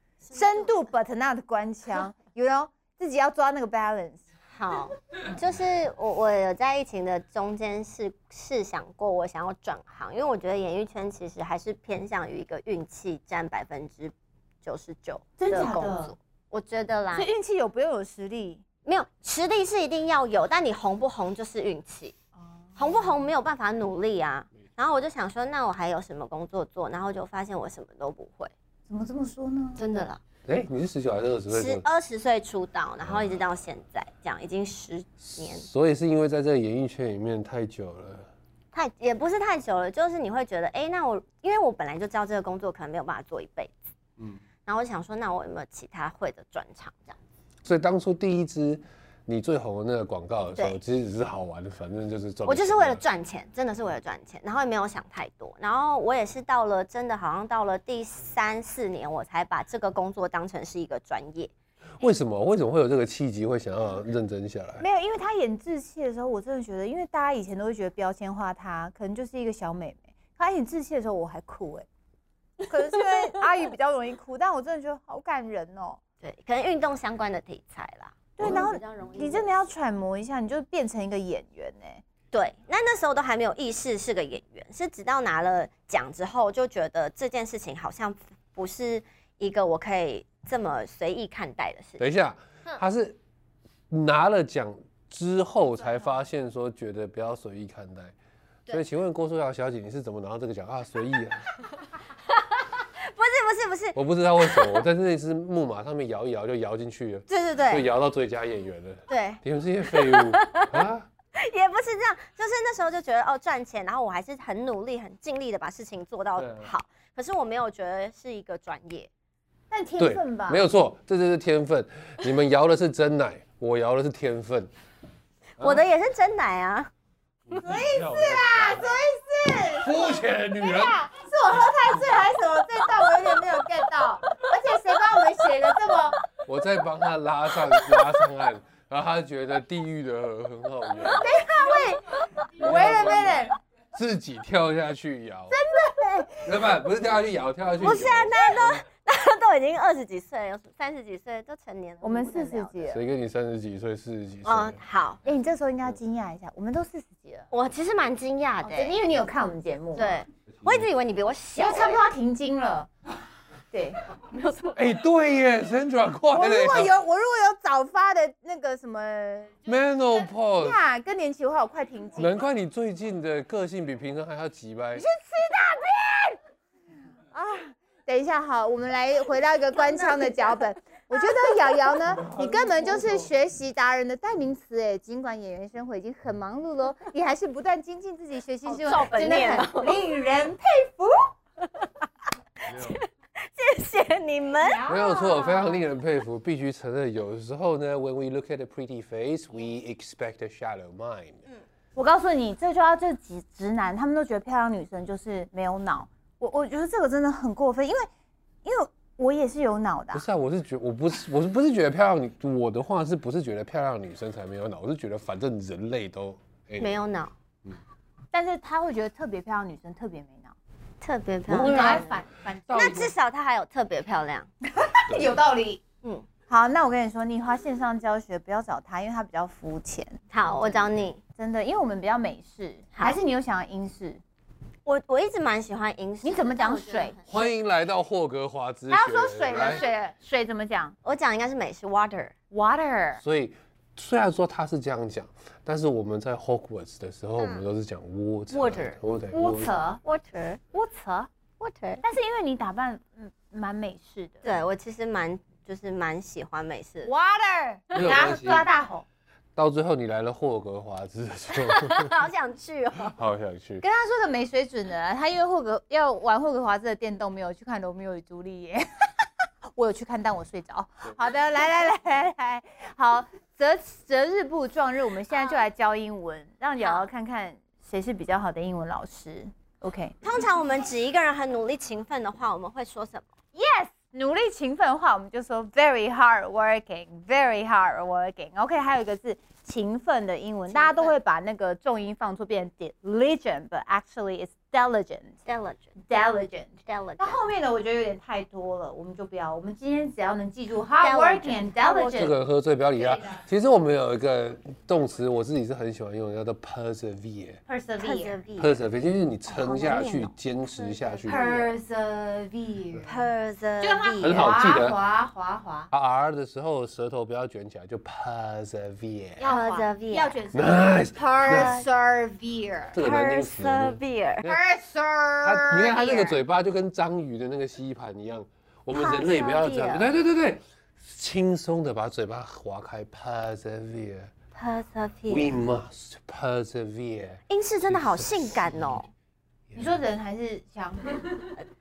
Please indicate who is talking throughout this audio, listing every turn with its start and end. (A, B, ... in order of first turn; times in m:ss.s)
0:00.2-0:00.7 A
0:00.3-0:04.2 B
0:04.5-0:17.3 A
0:15.4-0:16.1 B
0:17.1-0:18.6 B
0:18.8-0:22.2 A
0:22.4-0:23.2 B
0:22.8-0:28.5 A
0:28.9-0:29.8 B
0:29.8-0:30.2 A
0:30.4-0:31.8 C
0:31.5-0:35.6 A
0:33.0-0:33.4 C
0:35.2-0:38.3 C
0:38.7-0:43.8 A
0:44.6-0:47.2 A
0:47.6-0:53.0 C
0:52.4-1:01.5 A
1:02.0-1:04.8 C
1:04.8-1:11.9 B
1:12.6-1:16.0 B
1:16.2-1:19.5 A
1:18.4-1:22.0 B
1:22.3-1:32.0 A
1:32.0-1:33.2 C
1:33.9-1:38.1 C
1:38.7-1:41.5 C
1:42.3-1:44.8 A
1:43.9-1:51.1 C
1:47.3-1:47.9 A
1:49.1-1:59.1 A
1:56.4-1:56.7 C
1:59.7-2:00.6 B
2:00.0-2:04.7 C
2:05.6-2:05.8 C
2:05.6-2:06.9 A
2:07.5-2:08.9 C
2:07.5-2:16.2 B
2:09.7-2:11.0 C
2:16.4-2:21.3 C
2:17.7-2:18.1 A
2:21.0-2:23.2 A
2:21.3-2:21.9 B
2:22.6-2:23.6 B
2:22.6-2:25.6 C
2:25.5-2:26.5 B
2:26.4-2:28.8 C
2:27.8-2:32.9 A
2:32.0-2:33.0 B
2:32.9-2:34.8 C
2:34.4-2:35.2 A
2:35.2-2:37.5 B
2:37.5-2:39.0 A
2:38.6-2:40.2 B
2:39.9-2:42.0 A
2:41.6-2:42.9 B
2:43.7-2:44.0 B
2:44.3-2:44.8 A
2:44.7-2:46.9 C
2:46.3-2:52.4 B
2:49.6-2:50.8 C
2:52.2-2:55.0 C
2:55.0-2:56.4 B
2:57.3-3:11.3 B
2:59.8-3:00.6 A
3:02.0-3:03.3 C
3:08.6-3:10.0 A
3:12.6-3:14.8 A
3:12.7-3:13.0 C
3:14.6-3:15.8 B
3:14.9-3:21.4 C
3:22.0-3:28.1 B
3:28.6-3:30.2 B
3:30.1-3:37.0 C
3:36.8-3:37.3 A
3:38.3-3:40.6 B
3:41.0-3:42.1 A
3:41.5-3:42.1 C
3:41.6-3:43.0 B
3:42.7-3:43.1 C
3:42.7-3:44.5 A
3:44.8-3:45.8 B
3:45.1-3:45.3 C
3:46.5-3:50.8 B
3:50.3-3:51.2 A
3:51.4-3:54.2 B
3:54.8-3:57.5 A
3:56.2-3:57.2 B
3:57.3-3:59.8 C
3:58.9-4:00.9 B
3:59.6-3:59.8 A
4:01.0-4:02.3 A
4:02.5-4:03.2 B
4:03.2-4:09.7 C
4:07.4-4:07.6 A
4:08.5-4:09.0 A
4:09.3-4:10.0 B
4:10.0-4:10.6 A
4:10.7-4:11.3 B
4:11.6-4:12.0 A
4:12.0-4:14.6 B
4:14.4-4:17.1 A
4:17.0-4:19.0 B
4:17.9-4:18.7 C
4:19.6-4:22.2 C
4:21.5-4:23.2 A
4:23.1-4:23.8 C
4:23.8-4:40.2 B
4:36.8-4:37.1 A
4:40.2-4:43.3 A
4:43.5-4:55.4 B
4:50.7-4:51.2 A
4:55.4-4:55.9 A
4:56.0-5:02.3 B
4:56.8-4:57.4 A
5:01.0-5:02.2 A
5:02.1-5:07.6 C
5:03.1-5:03.4 B
5:07.7-5:08.4 B
5:08.0-5:08.8 A
5:08.6-5:11.5 C
5:09.5-5:11.7 A
5:11.3-5:13.2 B
5:13.0-5:14.5 A
5:13.8-5:15.9 B
5:14.2-5:15.0 C
5:15.9-5:19.5 C
5:19.4-5:23.0 B
5:19.4-5:20.4 A
5:20.5-5:21.7 C
5:21.3-5:21.9 A
5:22.9-5:24.6 C
5:23.0-5:24.4 A
5:24.4-5:26.3 B
5:25.4-5:34.3 C
5:25.9-5:26.4 A
5:28.9-5:30.1 A
5:34.5-5:35.6 A
5:35.3-5:39.0 C
5:37.5-5:39.1 A
5:39.7-5:41.5 B